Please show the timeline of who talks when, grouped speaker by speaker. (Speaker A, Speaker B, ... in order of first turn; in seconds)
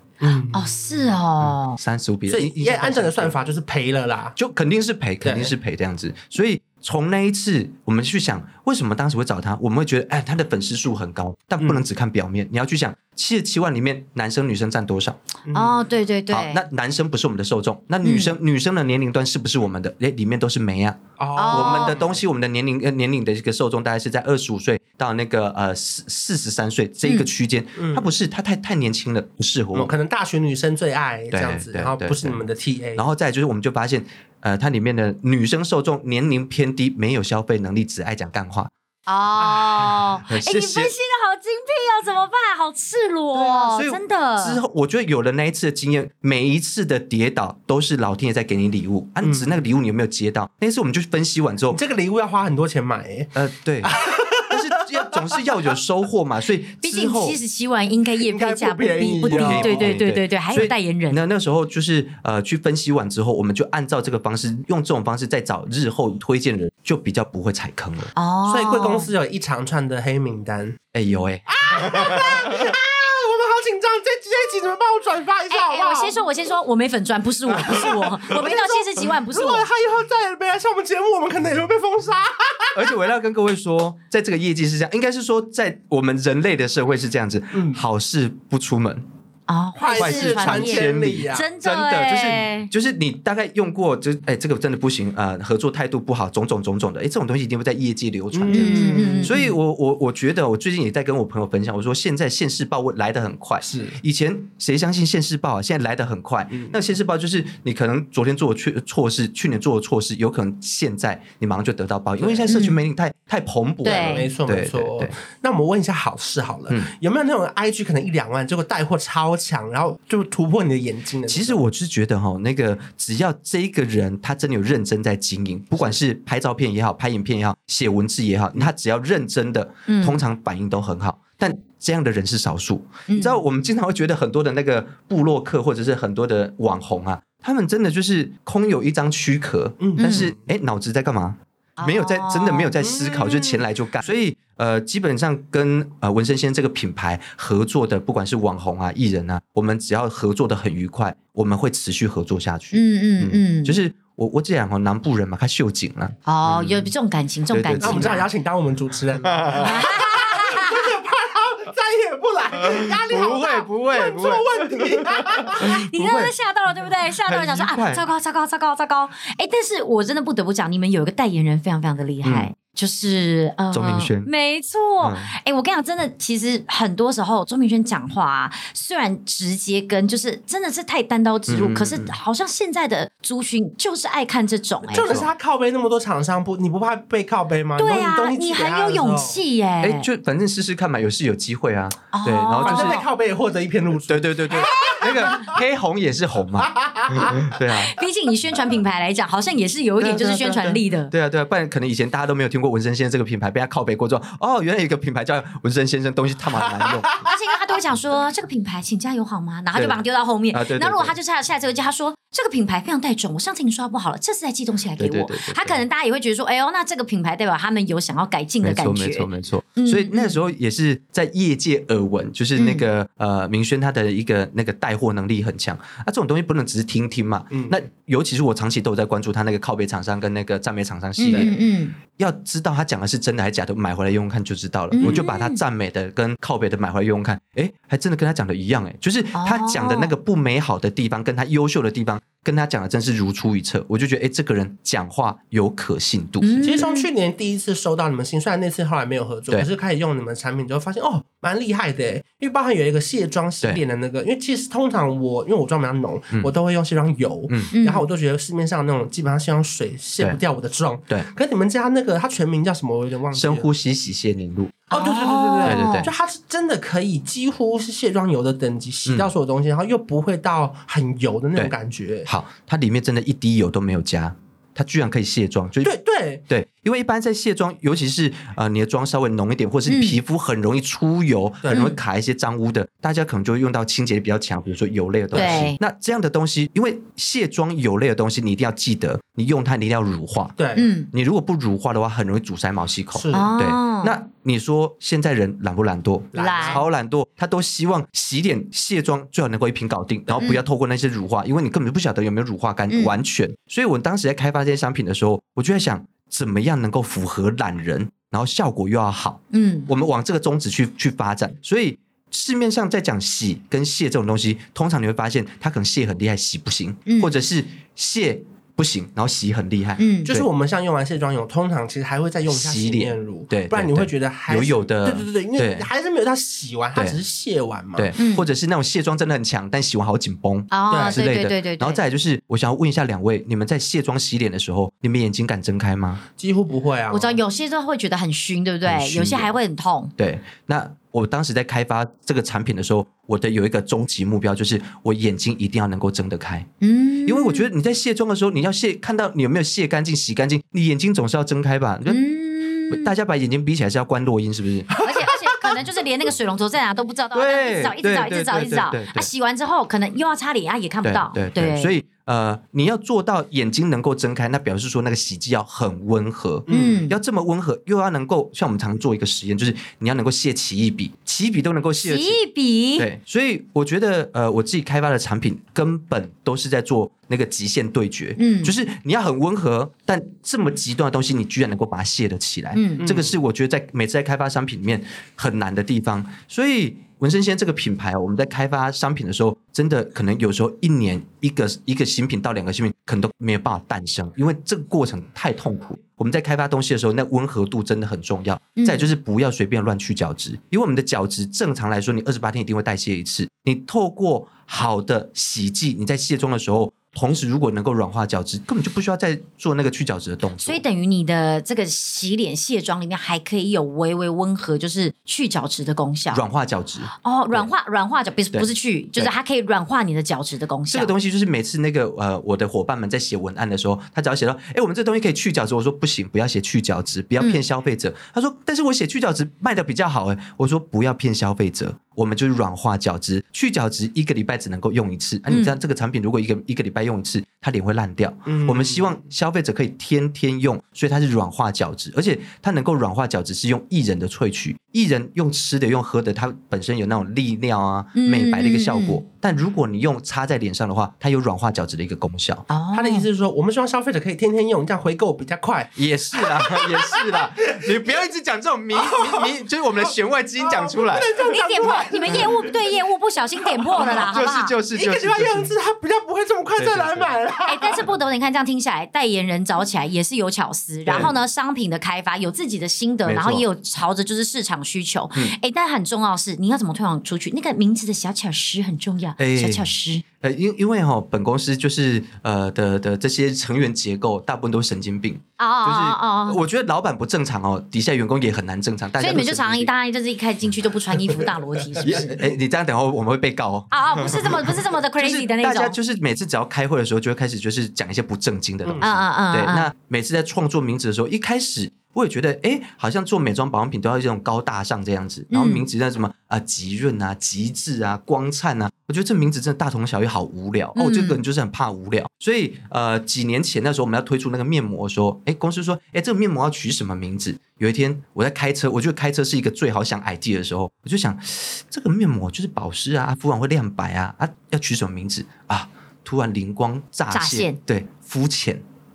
Speaker A: 0.2-1.1, 2.3-4.3, 5.2-5.5, 15.4-15.9, 21.2-22.2, 27.8-28.1, 29.7-33.0, 39.4-39.8, 49.2-49.6, 51.7-55.2, 58.2-60.0, 68.4-70.8, 71.5-76.2, 77.6-82.8, 87.5-87.8, 89.8-91.5, 98.3-99.4, 103.6-104.0, 106.5-106.8, 112.2-112.5, 113.8-121.6, 139.8-140.3, 142.8-143.6, 157.8-165.7, 184.9-189.4, 192.6-195.6, 196.6-197.4, 227.5-227.8, 246.6-263.7, 264.9-272.3, 275.8-276.4, 281.6-281.9, 285.3-285.7, 290.6-290.9, 293.1-293.5, 296.3-296.8, 320.2-328.1, 330.9-331.2, 336.4-337.4, 355.0-355.8, 366.7-367.0, 383.0-383.3, 438.4-439.1, 452.9-458.2, 458.9-459.5, 460.6-462.8, 463.9-464.2, 464.9-468.1
Speaker B: 0.5-1.8, 15.5-16.6, 18.0-18.3, 21.4-22.0, 39.1-44.6, 56.8-61.2, 68.1-69.1, 75.5-79.7, 89.5-92.7, 98.5-99.5, 112.5-112.8, 113.8-114.3, 129.9-130.2, 133.1-133.4, 140.0-140.3, 141.8-142.7, 152.7-153.8, 156.2-158.3, 159.6-160.9, 165.6-185.2, 187.8-190.1, 192.1-193.0, 194.5-195.5, 197.7-201.1, 207.2-220.4, 222.6-222.8, 231.2-231.9, 234.9-235.6, 239.3-240.1, 246.4-247.1, 257.7-258.1, 264.9-266.1, 279.9-280.2, 281.7-282.0, 285.3-285.8, 290.7-291.1, 293.3-294.1, 296.3-296.8, 309.5-309.9, 317.1-317.3, 320.0-320.3, 328.2-328.5, 330.7-332.0, 337.1-340.1, 346.8-347.7, 352.1-353.1, 355.0-361.9, 366.7-367.2, 372.0-373.1, 378.4-378.7, 382.7-383.1, 398.8-399.1, 410.6-416.4, 417.2-421.1, 435.5-435.7, 448.1-449.2, 452.7-453.3, 461.5-464.7, 467.6-480.2, 485.6-486.6, 489.2-492.3, 493.9-495.9, 499.0-499.9, 505.5-505.8, 510.9-511.4, 527.3-527.8
Speaker C: 1.4-3.4, 4.3-15.2, 16.3-29.9, 31.3-32.4, 33.0-38.7, 40.2-40.9, 43.3-51.8, 53.3-57.4, 59.3-68.1, 70.9-72.6, 82.7-89.0, 90.0-115.1, 121.3-156.9, 157.5-158.2, 159.2-159.8, 162.6-166.3, 167.2-168.0, 172.2-172.5, 173.7-174.3, 175.0-175.3, 181.5-182.1, 184.9-185.3, 189.8-193.0, 194.1-198.0, 200.0-207.2, 209.7-211.2, 215.0-215.8, 218.6-231.5, 232.1-246.7, 263.3-264.8, 265.6-266.1, 269.1-269.3, 272.2-275.9, 276.5-290.6, 291.1-320.5, 322.5-325.9, 327.9-336.2, 338.8-339.5, 340.2-346.7, 347.2-352.2, 352.9-355.0, 357.3-359.3, 361.0-372.4, 373.0-410.8, 416.3-417.7, 418.5-419.3, 420.9-452.7, 455.9-461.3, 464.0-465.7, 466.8-467.3, 471.1-471.3, 473.2-473.6, 479.4-479.9, 480.4-489.9, 492.0-528.8